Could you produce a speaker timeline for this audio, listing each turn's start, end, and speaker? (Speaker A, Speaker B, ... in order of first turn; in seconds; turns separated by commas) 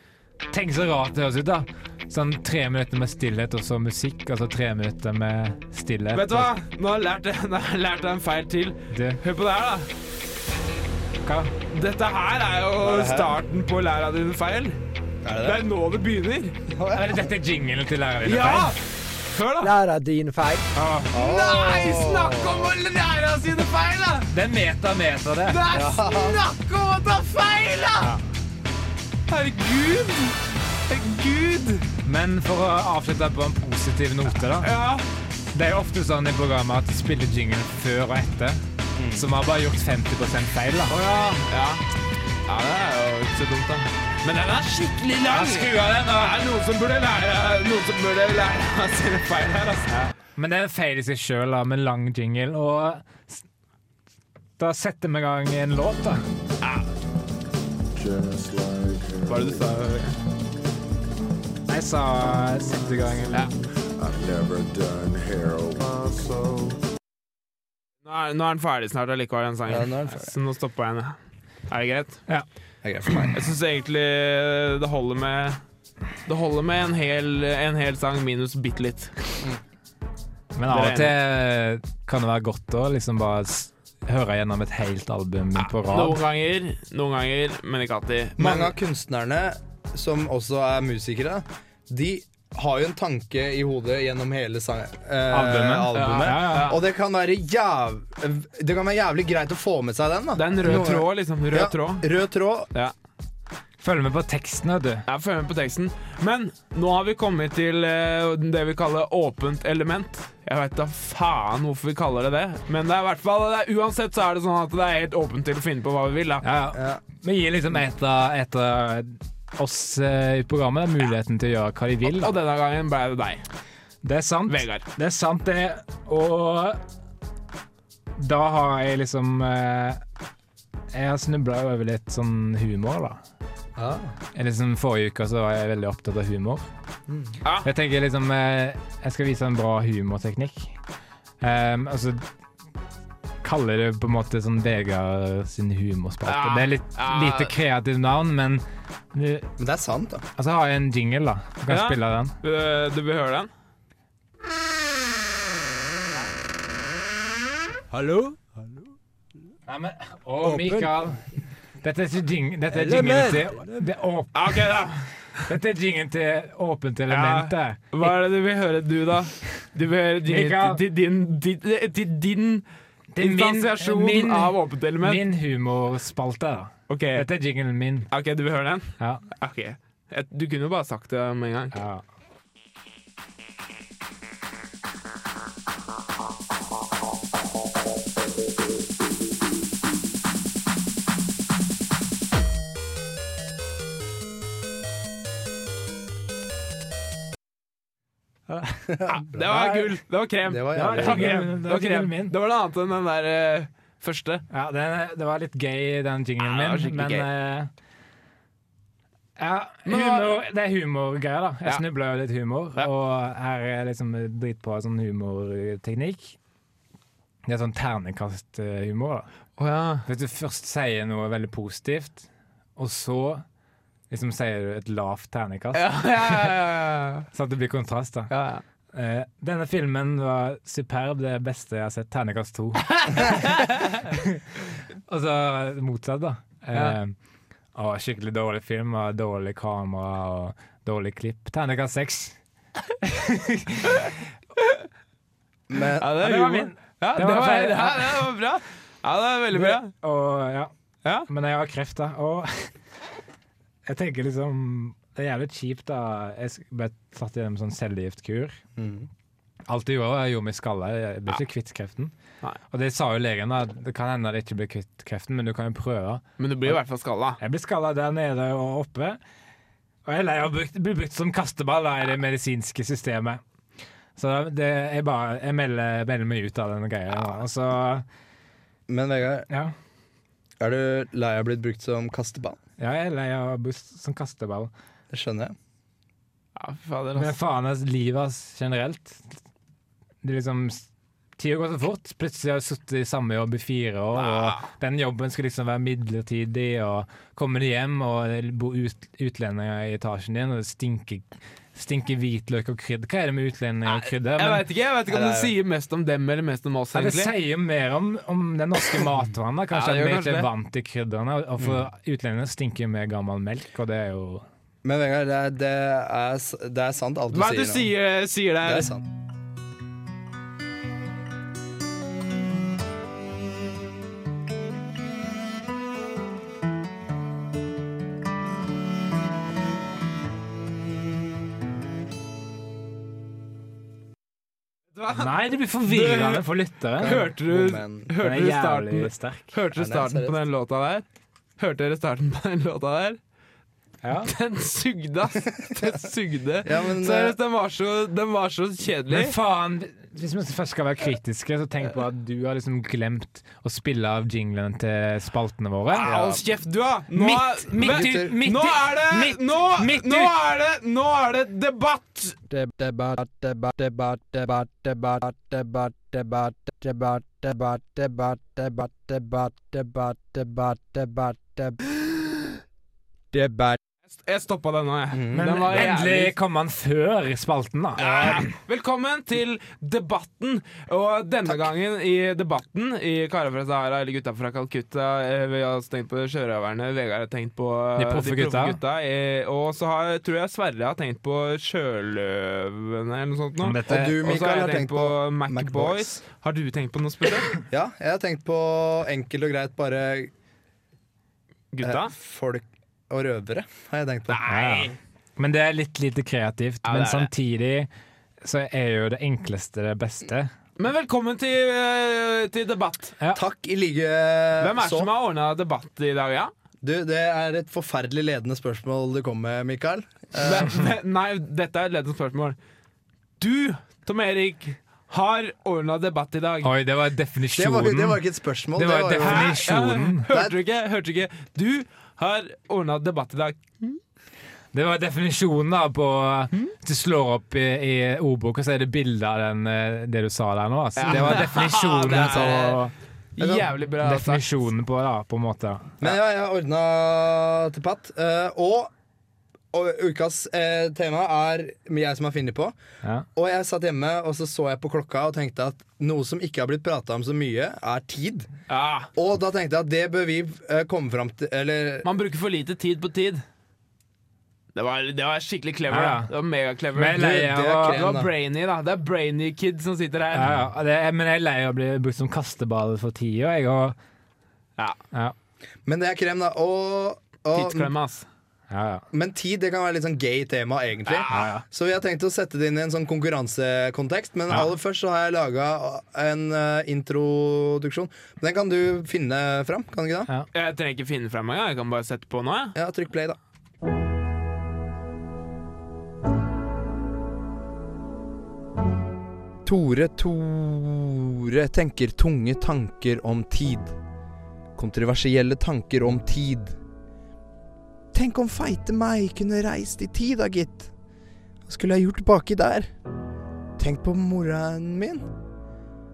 Speaker A: 0.5-6.5, Speaker B: 6.1-9.9, Speaker A: 8.9-9.2, Speaker A: 11.2-11.5, Speaker B: 11.7-14.8, Speaker C: 12.8-13.3, Speaker C: 15.2-15.6, Speaker B: 15.4-16.6, Speaker C: 16.7-17.2, Speaker A: 16.9-18.8, Speaker B: 18.2-19.7, Speaker D: 19.6-20.6, Speaker B: 20.8-24.3, Speaker C: 21.1-22.7, Speaker A: 24.3-25.6, Speaker B: 25.5-28.1, Speaker C: 25.7-26.4, Speaker B: 29.3-31.9, Speaker A: 32.0-34.7, Speaker B: 34.5-35.0, Speaker A: 35.5-38.6, Speaker C: 39.0-39.2, Speaker A: 39.1-41.0, Speaker B: 40.9-41.8, Speaker B: 42.5-49.9, Speaker A: 45.3-46.4, Speaker A: 49.9-53.4, Speaker A: 54.6-56.2, Speaker B: 56.6-56.9, Speaker E: 57.9-59.7, Speaker B: 59.3-60.1, Speaker A: 61.7-63.5, Speaker E: 64.0-66.8, Speaker B: 68.0-71.2, Speaker C: 69.7-70.3, Speaker B: 71.7-72.2, Speaker C: 72.8-73.4, Speaker B: 73.3-75.6, Speaker B: 76.2-79.4, Speaker A: 80.5-86.2, Speaker B: 80.7-81.1, Speaker B: 85.6-88.7, Speaker C: 88.4-102.7, Speaker A: 95.3-96.8, Speaker B: 95.9-96.8, Speaker B: 100.3-102.0, Speaker A: 103.8-105.0, Speaker B: 105.0-116.4, Speaker A: 116.4-122.3, Speaker C: 116.7-117.0, Speaker B: 122.0-123.4, Speaker A: 124.0-126.8, Speaker B: 124.5-124.8, Speaker A: 128.1-130.0, Speaker A: 130.9-133.2, Speaker C: 133.8-134.1, Speaker A: 134.3-136.7, Speaker C: 137.1-137.3, Speaker B: 137.4-137.7, Speaker A: 137.6-140.8, Speaker A: 141.4-142.2, Speaker A: 143.4-149.5, Speaker B: 146.2-147.5, Speaker C: 149.6-150.2, Speaker A: 150.4-152.3, Speaker B: 151.7-153.5, Speaker D: 157.9-158.9, Speaker A: 159.7-161.2, Speaker D: 160.4-161.1, Speaker A: 161.8-164.7, Speaker D: 162.7-163.8, Speaker B: 164.3-165.1, Speaker A: 165.5-168.1, Speaker B: 167.1-172.6, Speaker A: 170.2-170.8, Speaker A: 173.1-178.1, Speaker B: 173.2-175.2, Speaker B: 176.9-177.3, Speaker B: 178.1-181.7, Speaker A: 181.7-182.0, Speaker A: 198.5-199.9, Speaker B: 199.1-204.4, Speaker C: 200.5-201.4, Speaker A: 200.7-202.3, Speaker A: 204.5-207.7, Speaker B: 206.4-207.3, Speaker A: 209.4-216.4, Speaker B: 209.8-210.3, Speaker A: 217.4-219.3, Speaker B: 219.6-220.1, Speaker A: 220.1-223.4, Speaker A: 224.1-226.5, Speaker B: 225.7-227.2, Speaker A: 227.3-228.3, Speaker B: 228.3-228.6, Speaker A: 228.9-234.4, Speaker B: 233.2-233.7, Speaker A: 235.1-237.1, Speaker A: 237.7-242.4, Speaker A: 243.0-244.1, Speaker B: 243.9-244.8, Speaker C: 245.7-246.1, Speaker B: 246.0-249.9, Speaker A: 246.2-248.3, Speaker A: 249.5-250.7, Speaker A: 251.3-252.7, Speaker A: 253.8-258.6, Speaker C: 258.8-259.1, Speaker A: 259.6-262.1, Speaker A: 262.7-266.7, Speaker B: 266.4-267.4, Speaker A: 267.4-269.2, Speaker A: 270.0-273.4, Speaker A: 274.1-278.0, Speaker C: 278.9-279.5, Speaker A: 279.5-279.7, Speaker C: 280.6-282.6, Speaker A: 282.8-284.7, Speaker C: 285.1-285.5, Speaker B: 286.6-287.3, Speaker A: 287.2-289.4, Speaker A: 290.2-290.9, Speaker A: 291.4-304.6, Speaker B: 294.1-294.7, Speaker B: 303.9-307.3, Speaker C: 305.1-305.5, Speaker A: 306.9-314.4, Speaker B: 309.7-310.5, Speaker C: 314.8-317.9, Speaker B: 317.3-318.9, Speaker C: 318.6-319.0, Speaker B: 334.9-336.4, Speaker A: 335.1-337.2, Speaker B: 337.0-341.0, Speaker C: 337.0-338.1, Speaker A: 338.2-339.5, Speaker C: 339.8-340.4, Speaker B: 341.6-343.2, Speaker A: 344.0-344.3, Speaker B: 344.2-349.3, Speaker C: 346.6-347.3, Speaker A: 349.1-356.1, Speaker B: 355.9-362.4, Speaker C: 356.0-356.4, Speaker A: 357.1-360.3, Speaker C: 357.8-358.3, Speaker D: 362.5-371.8, Speaker D: 373.3-373.7, Speaker B: 374.1-376.3, Speaker C: 375.1-375.8, Speaker A: 375.3-378.5, Speaker B: 378.0-397.5, Speaker A: 388.0-388.8, Speaker A: 393.6-394.2, Speaker C: 393.9-396.2, Speaker C: 397.7-400.3, Speaker B: 401.7-402.1, Speaker C: 401.8-404.4, Speaker B: 404.3-405.0, Speaker A: 404.5-407.9, Speaker B: 406.8-407.3, Speaker A: 408.4-410.5, Speaker B: 410.8-413.1, Speaker C: 413.3-415.1, Speaker B: 414.6-416.5, Speaker C: 416.8-420.7, Speaker B: 420.4-422.6, Speaker B: 423.4-426.7, Speaker A: 426.6-428.2, Speaker C: 427.6-429.5, Speaker A: 428.7-430.2, Speaker B: 429.2-434.0, Speaker C: 430.3-430.5, Speaker A: 434.7-442.9, Speaker B: 441.0-442.8, Speaker C: 441.1-441.4, Speaker C: 442.1-442.7, Speaker B: 443.4-444.5, Speaker A: 444.0-445.9, Speaker C: 446.0-448.9, Speaker C: 449.7-452.7, Speaker C: 453.4-458.5, Speaker B: 458.7-459.1, Speaker C: 459.1-462.1, Speaker B: 462.0-463.4, Speaker B: 464.7-467.2, Speaker A: 465.9-466.3, Speaker A: 466.9-468.0, Speaker C: 467.1-468.3, Speaker B: 467.9-470.5, Speaker A: 470.3-474.0, Speaker C: 475.9-477.9, Speaker B: 477.5-478.2, Speaker A: 478.7-479.0, Speaker C: 479.1-490.3, Speaker B: 481.1-481.5, Speaker A: 481.3-481.6, Speaker B: 490.5-492.8, Speaker C: 492.7-493.4, Speaker C: 499.6-503.9, Speaker C: 504.8-506.8, Speaker C: 508.1-510.9, Speaker C: 511.7-512.9, Speaker C: 513.8-515.2